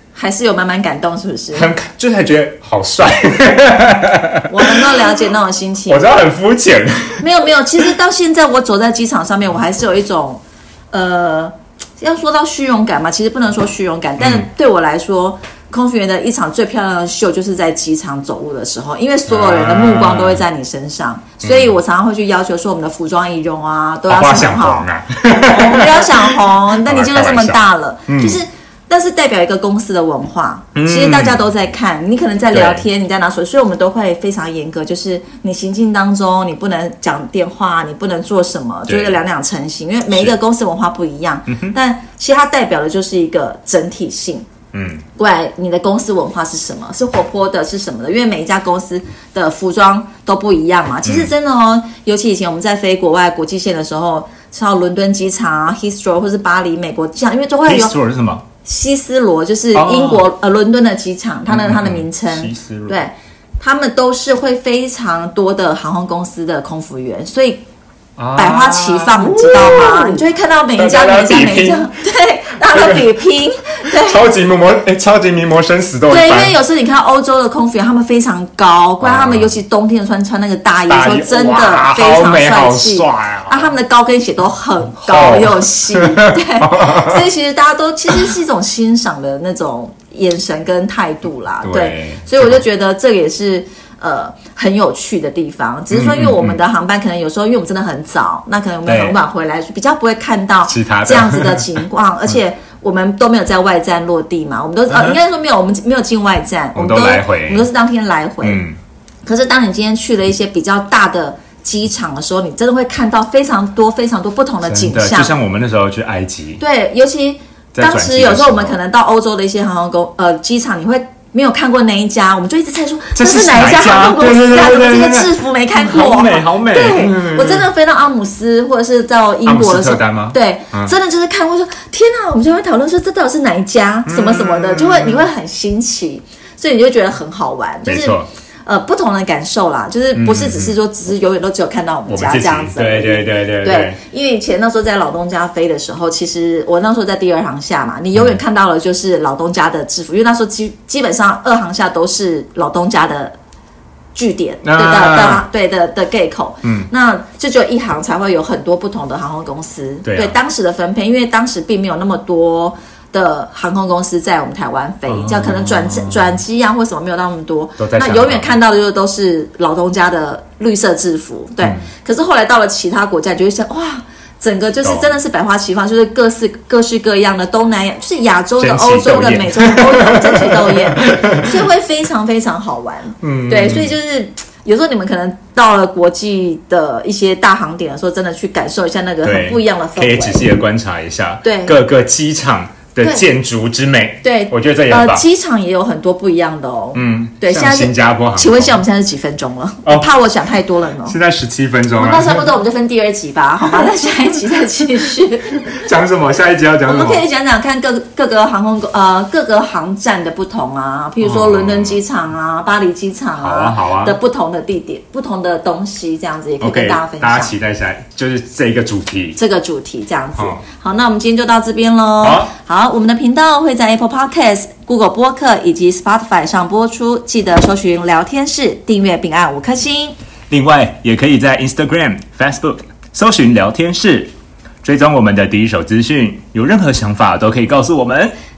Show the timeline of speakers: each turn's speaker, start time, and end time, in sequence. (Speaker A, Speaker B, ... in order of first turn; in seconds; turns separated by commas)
Speaker A: 0.1-1.7, Speaker B: 1.5-5.0, Speaker A: 4.5-6.1, Speaker B: 5.9-7.2, Speaker A: 7.2-24.9, Speaker B: 14.2-14.5, Speaker B: 19.3-20.4, Speaker B: 21.4-21.8, Speaker B: 24.1-28.4, Speaker A: 25.4-44.5, Speaker B: 30.8-31.4, Speaker B: 32.5-32.9, Speaker B: 38.9-39.2, Speaker B: 41.5-41.8, Speaker B: 44.7-45.0, Speaker A: 45.2-58.0, Speaker B: 51.0-51.3, Speaker B: 57.6-58.5, Speaker A: 58.6-67.6, Speaker B: 59.7-60.3, Speaker B: 61.5-63.0, Speaker B: 68.2-70.2, Speaker A: 68.4-74.3, Speaker B: 70.8-71.9, Speaker B: 72.7-73.2, Speaker B: 73.9-76.6, Speaker A: 76.1-108.6, Speaker B: 79.0-79.5, Speaker B: 80.9-83.7, Speaker B: 84.9-87.2, Speaker B: 91.6-92.6, Speaker B: 95.9-96.6, Speaker B: 98.8-99.2, Speaker B: 100.7-101.8, Speaker B: 104.9-105.2, Speaker B: 106.8-107.7, Speaker B: 108.4-108.8, Speaker A: 109.3-115.3, Speaker B: 114.6-116.6, Speaker A: 116.6-153.4, Speaker B: 117.7-118.8, Speaker B: 123.2-127.7, Speaker B: 129.5-130.9, Speaker B: 134.1-135.3, Speaker B: 137.9-138.3, Speaker B: 140.2-140.7, Speaker B: 142.1-144.0, Speaker B: 148.1-148.4, Speaker A: 154.2-190.4, Speaker B: 154.6-155.4, Speaker B: 156.6-156.9, Speaker B: 160.0-160.4, Speaker B: 165.1-166.4, Speaker B: 167.8-168.6, Speaker B: 171.6-171.9, Speaker B: 174.8-175.1, Speaker B: 178.6-181.6, Speaker B: 183.2-184.0, Speaker B: 189.2-195.2, Speaker A: 191.4-191.8, Speaker A: 194.2-201.2, Speaker B: 196.9-198.8, Speaker B: 199.8-200.1, Speaker B: 201.0-202.5, Speaker A: 201.9-205.8, Speaker B: 205.6-207.3, Speaker A: 206.8-217.6, Speaker B: 211.2-212.0, Speaker B: 213.4-214.2, Speaker B: 216.6-219.4, Speaker A: 219.4-230.2, Speaker B: 222.2-222.5, Speaker B: 230.5-234.3, Speaker B: 234.8-238.3